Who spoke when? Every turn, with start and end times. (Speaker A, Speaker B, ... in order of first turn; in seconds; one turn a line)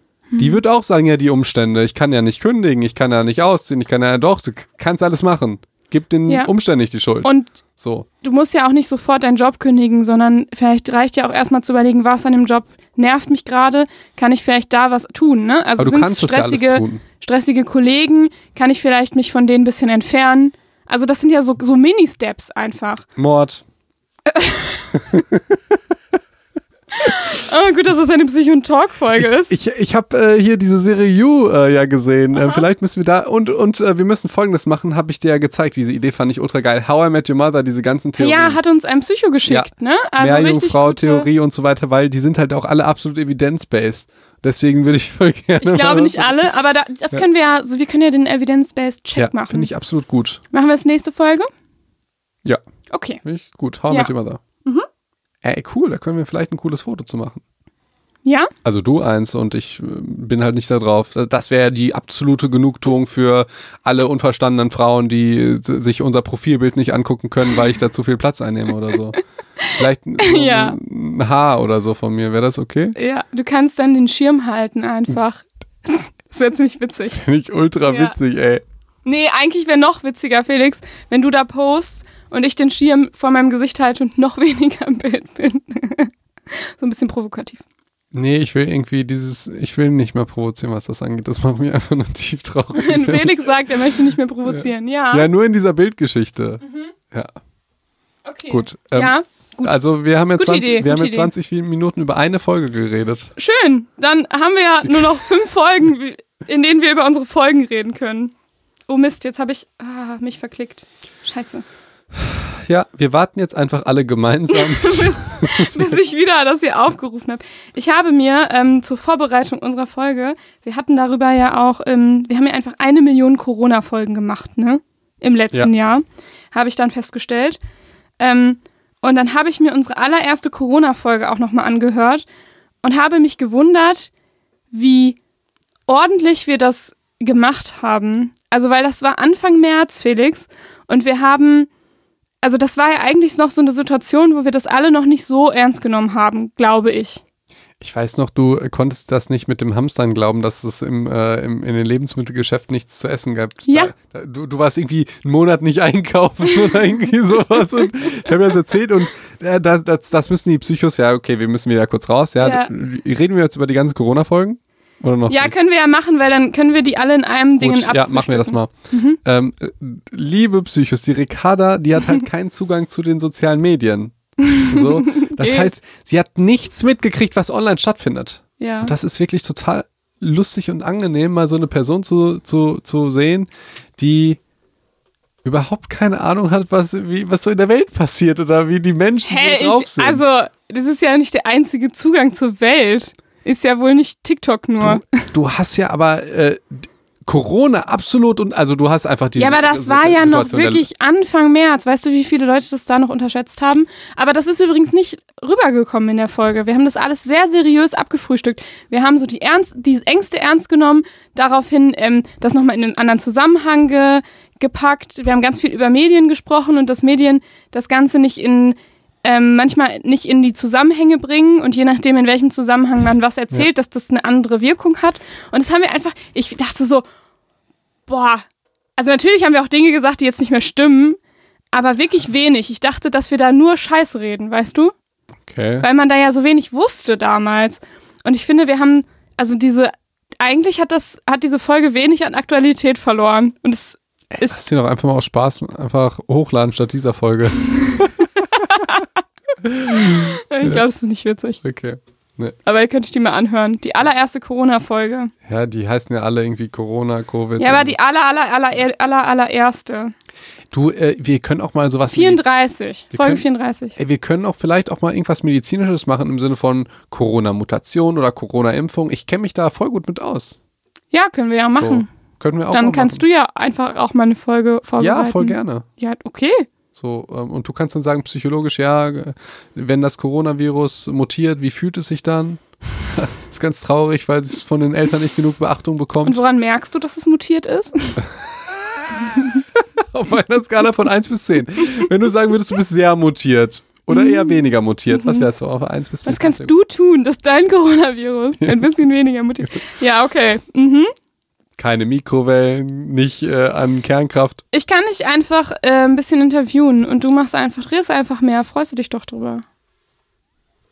Speaker A: 0.3-0.6
Speaker B: 0.4-8.1
Speaker A: 7.2-7.6
Speaker A: 8.2-23.1
Speaker B: 15.8-17.0
Speaker B: 23.2-23.6
Speaker A: 24.3-24.9
Speaker B: 24.9-25.8
Speaker A: 26.9-29.5
Speaker B: 29.2-38.6
Speaker A: 32.4-32.6
Speaker A: 38.2-41.3
Speaker B: 39.5-46.5
Speaker A: 45.6-49.7
Speaker B: 49.1-50.4
Speaker A: 50.5-51.5
Speaker A: 52.9-53.2
Speaker B: 53.2-54.4
Speaker B: 55.4-57.4
Speaker A: 58.2-58.5
Speaker B: 58.6-69.2
Speaker A: 69.6-70.8
Speaker B: 69.7-72.9
Speaker A: 72.9-77.2
Speaker B: 77.1-78.6
Speaker A: 77.9-78.1
Speaker A: 79.0-87.6
Speaker B: 88.1-97.3
Speaker A: 92.8-95.3
Speaker A: 96.6-96.9
Speaker A: 98.2-99.7
Speaker B: 98.5-103.3
Speaker A: 100.3-101.3
Speaker A: 103.4-108.3
Speaker B: 104.8-105.2
Speaker A: 108.9-111.6
Speaker B: 112.1-116.0
Speaker A: 114.5-127.6
Speaker A: 128.2-132.2
Speaker A: 132.8-134.1
Speaker A: 134.7-135.2
Speaker A: 135.9-141.7
Speaker A: 142.4-147.2
Speaker B: 147.8-165.5
Speaker A: 153.7-153.9
Speaker A: 162.4-162.7
Speaker A: 165.3-169.2
Speaker B: 167.6-168.7
Speaker B: 169.2-174.1
Speaker A: 174.4-175.7
Speaker B: 174.6-184.4
Speaker A: 178.6-178.9
Speaker B: 185.4-190.2
Speaker A: 189.3-195.3
Speaker B: 194.8-200.9
Speaker A: 199.3-227.0
Speaker A: 228.1-228.4
Speaker A: 229.0-231.2
Speaker A: 231.7-234.9
Speaker B: 235.4-235.8
Speaker A: 235.8-244.7
Speaker B: 244.3-248.8
Speaker A: 247.9-249.1
Speaker B: 249.6-250.8
Speaker A: 249.9-251.6
Speaker B: 251.6-252.6
Speaker A: 252.6-255.3
Speaker B: 255.4-258.0
Speaker A: 257.6-260.1
Speaker B: 260.7-262.4
Speaker A: 262.1-264.0
Speaker B: 263.1-263.4
Speaker B: 264.0-270.6
Speaker A: 271.1-272.1
Speaker B: 271.7-273.2
Speaker A: 272.7-276.6
Speaker B: 275.0-275.8
Speaker B: 276.9-286.4
Speaker A: 286.2-288.2
Speaker B: 289.7-296.7
Speaker A: 294.1-295.4
Speaker A: 296.2-301.1
Speaker B: 298.6-298.9
Speaker B: 301.8-304.6
Speaker A: 304.7-309.6